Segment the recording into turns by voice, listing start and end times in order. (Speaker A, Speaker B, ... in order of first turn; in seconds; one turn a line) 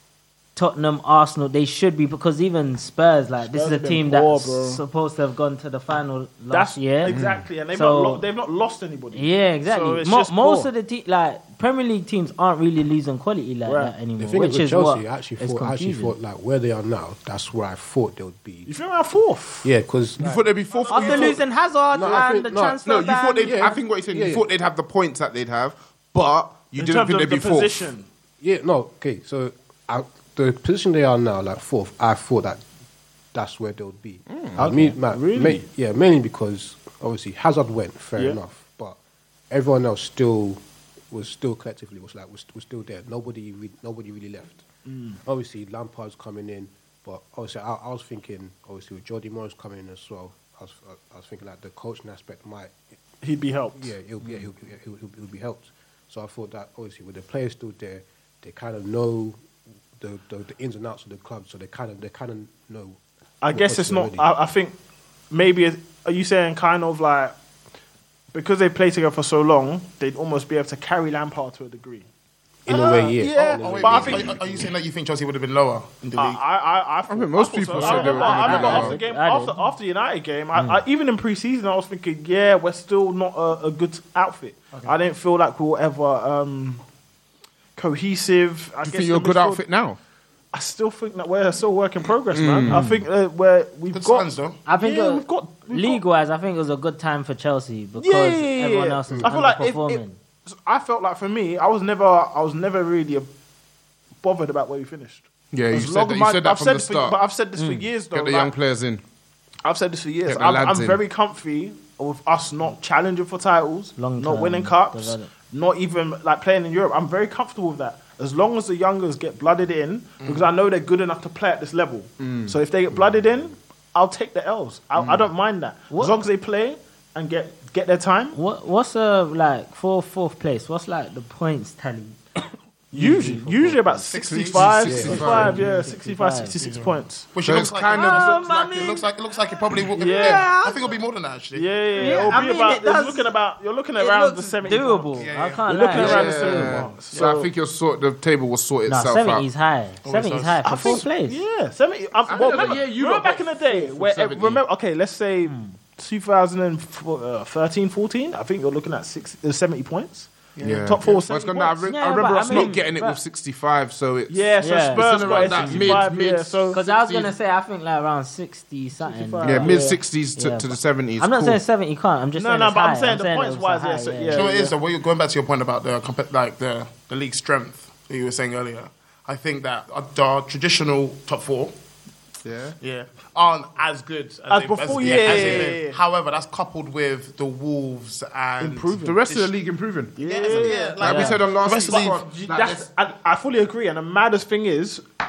Speaker A: 0.6-7.2
Speaker B: 3.5-4.8
Speaker B: 6.5-10.7
Speaker C: 7.1-7.5
Speaker A: 7.7-8.2
Speaker A: 9.1-16.1
Speaker B: 13.7-13.9
Speaker D: 14.2-18.7
Speaker B: 18.7-19.7
Speaker D: 19.6-20.5
Speaker C: 20.2-21.4
Speaker B: 20.7-21.4
Speaker A: 20.9-23.6
Speaker D: 21.9-22.8
Speaker C: 22.8-27.9
Speaker D: 23.4-24.4
Speaker B: 26.8-28.1
Speaker D: 28.4-32.6
Speaker D: 33.3-39.0
Speaker C: 34.3-34.6
Speaker B: 34.6-35.6
Speaker D: 39.5-44.6
Speaker B: 44.9-45.2
Speaker D: 45.2-52.8
Speaker B: 53.2-53.9
Speaker D: 53.8-59.4
Speaker D: 60.0-63.0
Speaker B: 63.4-64.8
Speaker D: 63.5-64.2
Speaker B: 65.3-67.3
Speaker B: 68.3-72.1
Speaker D: 72.7-74.7
Speaker B: 72.7-74.4
Speaker E: 73.4-76.4
Speaker B: 76.2-86.8
Speaker C: 77.1-79.0
Speaker A: 77.8-79.6
Speaker B: 87.8-89.6
Speaker C: 88.8-90.0
Speaker B: 90.5-96.0
Speaker C: 92.3-93.0
Speaker E: 93.9-94.6
Speaker A: 94.7-100.2
Speaker B: 98.0-103.3
Speaker B: 104.2-108.5
Speaker C: 105.5-107.2
Speaker A: 107.6-107.8
Speaker C: 108.1-109.0
Speaker B: 109.6-128.4
Speaker C: 110.2-111.0
Speaker A: 114.0-115.3
Speaker C: 122.2-122.5
Speaker A: 125.9-126.2
Speaker A: 128.3-132.2
Speaker B: 132.9-137.3
Speaker A: 132.9-134.0
Speaker E: 134.1-135.6
Speaker C: 134.3-135.6
Speaker D: 134.9-135.4
Speaker A: 135.1-136.6
Speaker E: 136.6-142.4
Speaker C: 137.4-138.9
Speaker A: 137.9-139.1
Speaker B: 139.9-140.5
Speaker A: 140.0-140.8
Speaker B: 141.6-145.2
Speaker A: 142.0-143.3
Speaker A: 144.0-146.9
Speaker E: 145.2-146.2
Speaker B: 145.7-147.5
Speaker C: 145.8-149.5
Speaker A: 148.9-151.4
Speaker E: 150.0-151.0
Speaker B: 150.7-162.8
Speaker C: 152.3-154.6
Speaker A: 155.5-155.7
Speaker E: 160.6-161.2
Speaker C: 160.6-167.3
Speaker A: 161.9-163.2
Speaker B: 164.3-166.8
Speaker A: 164.6-166.1
Speaker A: 166.7-174.5
Speaker B: 169.0-170.0
Speaker C: 169.4-171.6
Speaker B: 172.4-174.8
Speaker E: 174.3-181.7
Speaker C: 182.4-182.8
Speaker E: 182.8-189.5
Speaker B: 184.5-186.0
Speaker C: 185.2-185.4
Speaker B: 188.6-189.2
Speaker C: 189.0-192.9
Speaker B: 190.2-195.0
Speaker E: 190.2-192.4
Speaker A: 191.0-191.3